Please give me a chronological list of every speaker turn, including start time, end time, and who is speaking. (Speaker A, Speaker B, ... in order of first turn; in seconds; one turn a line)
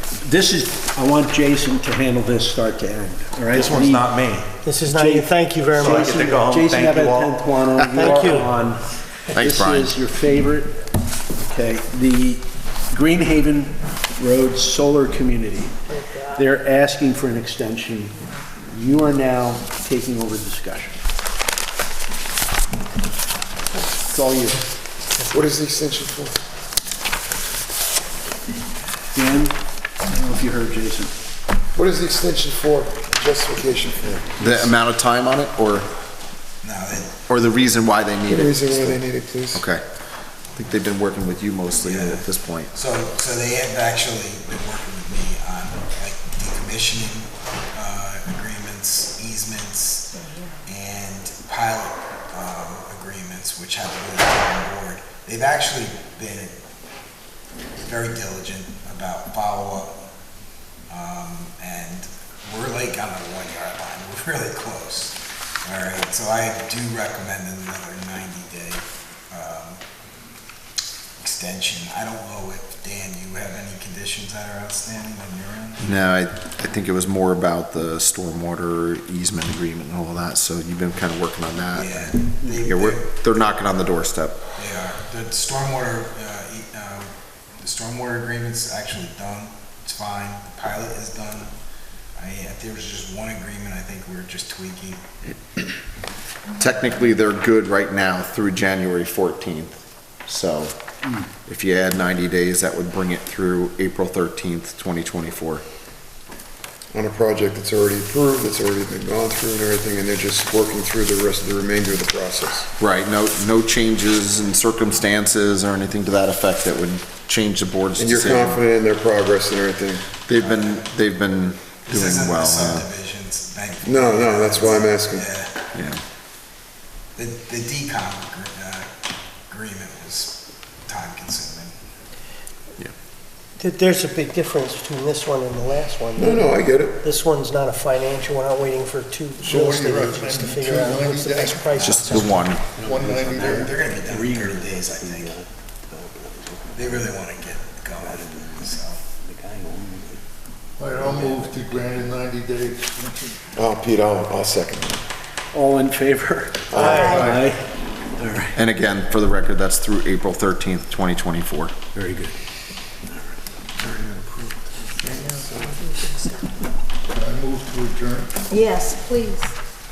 Speaker A: 0.2-4.1
Speaker B: 3.5-4.5
Speaker C: 4.6-6.5
Speaker A: 4.9-10.8
Speaker B: 5.8-7.3
Speaker C: 7.9-8.5
Speaker D: 9.3-9.9
Speaker A: 11.3-21.0
Speaker C: 15.9-16.3
Speaker A: 24.0-24.6
Speaker E: 25.3-26.4
Speaker A: 29.1-29.6
Speaker A: 30.1-31.1
Speaker E: 31.7-34.3
Speaker D: 34.4-35.9
Speaker F: 36.6-37.2
Speaker D: 37.3-39.8
Speaker E: 38.3-39.6
Speaker D: 40.5-42.7
Speaker F: 41.8-56.6
Speaker G: 50.1-50.6
Speaker F: 57.8-60.0
Speaker F: 60.9-69.8
Speaker F: 71.2-75.8
Speaker D: 75.8-84.4
Speaker F: 81.7-83.5
Speaker F: 84.5-91.5
Speaker F: 92.2-95.0
Speaker D: 96.6-100.8
Speaker D: 101.5-105.6
Speaker E: 106.9-112.7
Speaker D: 112.8-118.6
Speaker E: 118.0-120.1
Speaker D: 120.3-122.9
Speaker F: 120.4-120.8
Speaker F: 121.9-125.5
Speaker E: 123.8-125.3
Speaker D: 125.7-126.0
Speaker F: 127.2-128.9
Speaker F: 129.5-131.7
Speaker C: 133.6-142.4
Speaker E: 136.2-137.1
Speaker H: 139.4-143.8
Speaker D: 141.8-142.6
Speaker A: 142.8-145.4
Speaker F: 143.2-145.4
Speaker A: 145.9-147.0
Speaker F: 146.7-149.0
Speaker A: 148.0-148.5
Speaker A: 149.3-150.2
Speaker H: 150.8-153.4
Speaker E: 153.6-155.0
Speaker A: 155.5-158.6
Speaker E: 156.7-157.2
Speaker C: 156.8-157.1
Speaker G: 156.9-157.3
Speaker H: 157.0-157.5
Speaker D: 158.6-161.8
Speaker A: 161.9-162.4
Speaker E: 164.0-164.4
Speaker H: 167.1-168.3
Speaker G: 168.5-169.5